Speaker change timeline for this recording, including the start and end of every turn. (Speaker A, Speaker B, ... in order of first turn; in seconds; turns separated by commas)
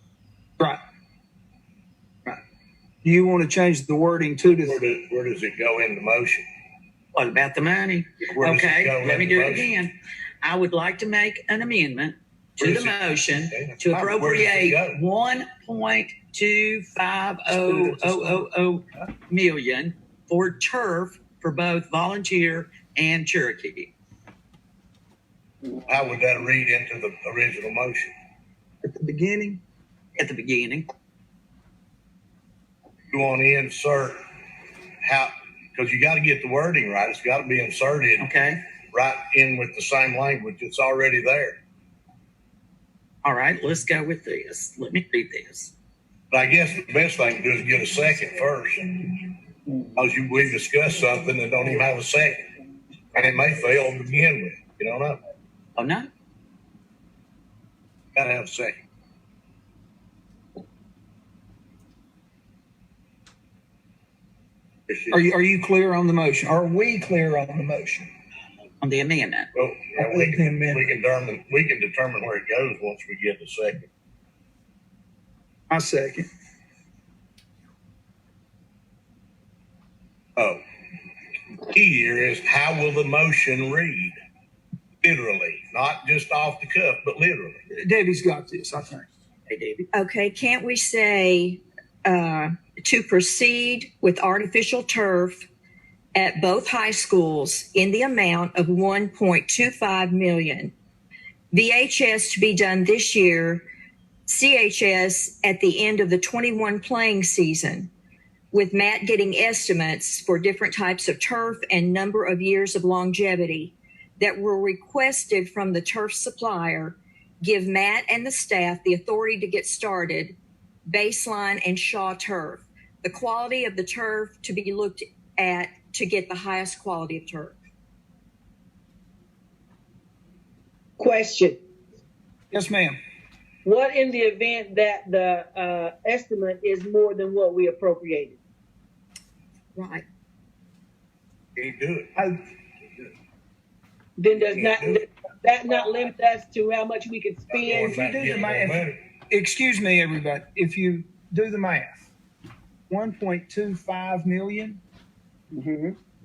Speaker A: 3.0-4.8, Speaker B: 4.6-6.4, Speaker C: 7.1-23.9, Speaker B: 8.3-9.7, Speaker B: 12.6-15.0, Speaker A: 17.5-18.5, Speaker B: 25.8-28.1, Speaker A: 28.8-29.6, Speaker C: 30.2-30.9, Speaker B: 33.1-34.2, Speaker B: 35.0-38.3, Speaker C: 38.2-38.6, Speaker B: 38.9-41.6, Speaker C: 43.2-45.7, Speaker B: 46.3-48.9, Speaker B: 50.0-52.5, Speaker B: 53.1-55.2, Speaker C: 55.8-56.1, Speaker B: 58.1-58.8, Speaker B: 64.9-65.2, Speaker A: 65.1-68.1, Speaker C: 68.8-69.5, Speaker B: 69.5-73.9, Speaker A: 70.0-70.9, Speaker A: 75.7-76.3, Speaker B: 81.6-84.1, Speaker B: 85.0-87.6, Speaker A: 87.7-89.1, Speaker C: 89.5-89.8, Speaker D: 89.9-95.5, Speaker D: 96.1-100.7, Speaker D: 101.5-103.6, Speaker D: 104.3-107.9, Speaker D: 108.5-127.6, Speaker E: 131.0-131.6, Speaker A: 132.5-132.9, Speaker E: 133.6-138.4, Speaker D: 139.7-140.0, Speaker B: 141.6-142.1, Speaker E: 144.2-148.3, Speaker B: 144.3-145.0, Speaker B: 147.5-149.0, Speaker A: 147.7-152.1, Speaker A: 152.9-154.8, Speaker E: 155.5-155.9